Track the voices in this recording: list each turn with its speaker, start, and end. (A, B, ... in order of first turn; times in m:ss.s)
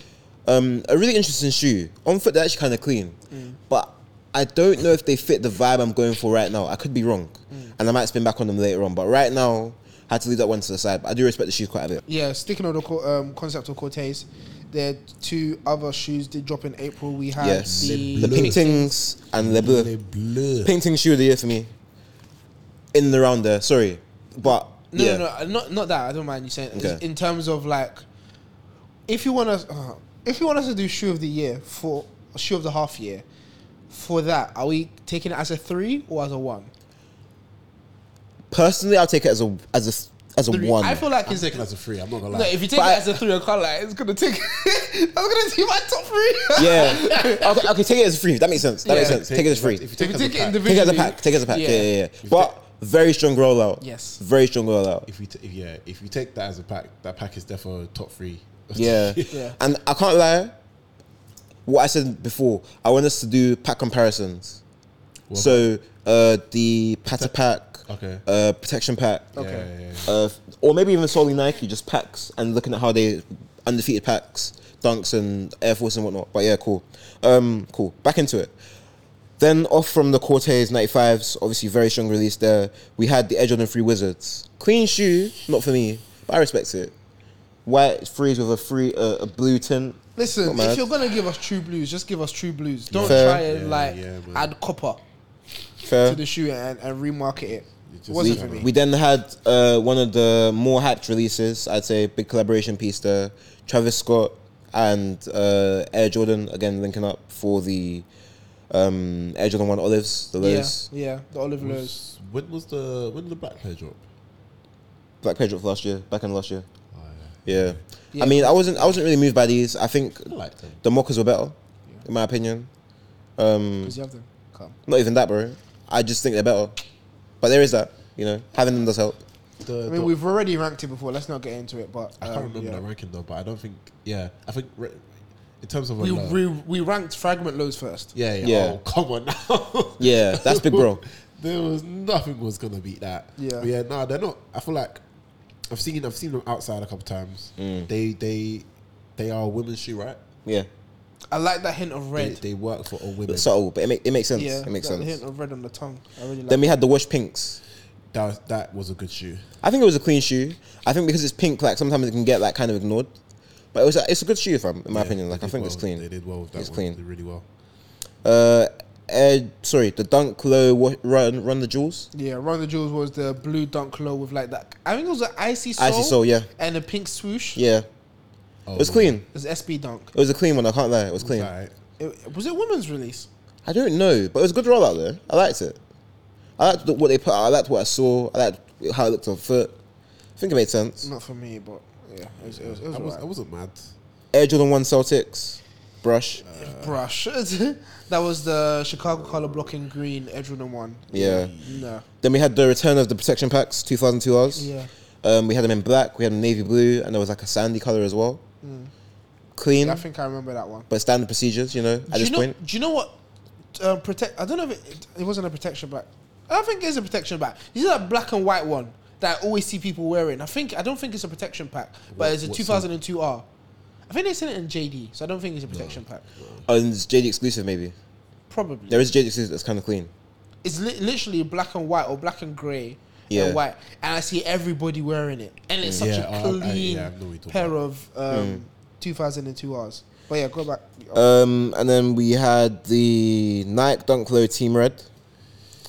0:00.4-0:03.2 A
0:03.3-0:03.6 B
0:03.7-0:12.0 A
0:07.5-0:07.8 B
0:12.1-0:18.9 B
0:17.4-0:19.9 A
0:17.6-0:18.6 C
0:19.4-0:20.7 C
0:20.6-0:21.7 A
0:22.9-0:25.2 A
0:24.9-0:28.0 B
0:26.7-0:27.0 A
0:29.1-0:33.2 B
0:33.9-0:36.7 B
0:38.5-0:41.0 A
0:40.5-0:41.6 B
0:41.2-0:42.6 C
0:42.3-0:47.5 B
0:42.7-0:43.0 A
0:46.6-0:49.8 A
0:48.8-0:49.2 B
0:48.9-0:50.8 C
0:50.0-0:51.9 B
0:50.6-0:55.1 A
0:53.8-0:54.2 B
0:55.1-0:59.4 C
0:58.7-1:00.5 A
0:59.3-0:59.6 B
1:01.6-1:04.6 A
1:05.3-1:05.7 C
1:05.3-1:09.3 A
1:07.1-1:07.3 C
1:07.9-1:08.2 C
1:09.3-1:09.7 B
1:09.4-1:10.1 C
1:10.0-1:18.5 A
1:19.4-1:26.9 A
1:27.6-1:30.9 A
1:30.2-1:35.0 B
1:32.9-1:34.5 C
1:33.0-1:33.4 A
1:35.8-1:36.2 A
1:36.0-1:38.7 B
1:37.9-1:38.7 C
1:38.2-1:48.1 A
1:48.7-1:50.9 A
1:50.4-1:52.0 B
1:51.6-1:54.0 C
1:55.2-1:56.6 A
1:56.9-1:57.8 C
1:57.4-2:00.3 A
1:58.1-1:59.0 B
2:00.3-2:00.8 C
2:00.8-2:02.7 A
2:03.4-2:04.0 A
2:03.8-2:04.7 B
2:04.9-2:06.8 A
2:07.4-2:09.2 A
2:09.6-2:10.1 C
2:09.9-2:12.8 B
2:12.2-2:16.4 C
2:16.0-2:18.1 B
2:18.1-2:25.0 C
2:18.4-2:18.8 A
2:20.0-2:21.0 A
2:23.4-2:23.7 B
2:25.7-2:28.6 C
2:27.6-2:27.9 A
2:29.2-2:30.2 C
2:31.3-2:32.4 B
2:32.2-2:33.5 C
2:33.3-2:35.2 A
2:34.3-2:36.8 B
2:36.5-2:37.6 A
2:38.1-2:39.5 C
2:39.6-2:43.1 A
2:43.7-2:46.0 A
2:44.9-2:47.4 C
2:46.6-2:47.0 A
2:48.2-2:52.1 A
2:52.1-2:57.6 B
2:55.8-2:56.5 A
2:57.5-2:57.9 A
2:58.7-2:59.2 C
2:58.8-2:59.2 A
2:59.3-3:00.1 B
3:00.1-3:01.5 A
3:01.2-3:01.7 C
3:02.0-3:03.3 B
3:03.6-3:05.8 A
3:06.6-3:09.7 A
3:10.4-3:11.1 A
3:11.0-3:13.2 B
3:12.3-3:13.9 C
3:14.3-3:16.4 A
3:16.4-3:17.0 C
3:16.6-3:22.0 B
3:21.1-3:21.5 A
3:21.1-3:21.9 C
3:22.2-3:24.7 A
3:24.5-3:24.9 B
3:25.2-3:28.4 A
3:28.6-3:28.9 B
3:29.6-3:30.0 A
3:29.8-3:30.9 B
3:30.9-3:32.5 A
3:32.1-3:33.2 B
3:33.7-3:43.4 B
3:42.1-3:42.9 C
3:44.1-3:46.2 B
3:45.7-3:46.7 C
3:46.7-3:47.9 A
3:48.5-3:49.1 B
3:48.9-3:50.1 A
3:50.6-4:01.3 B
3:53.3-3:53.6 A
3:56.0-3:57.7 C
3:58.3-3:58.6 A
4:01.1-4:05.0 A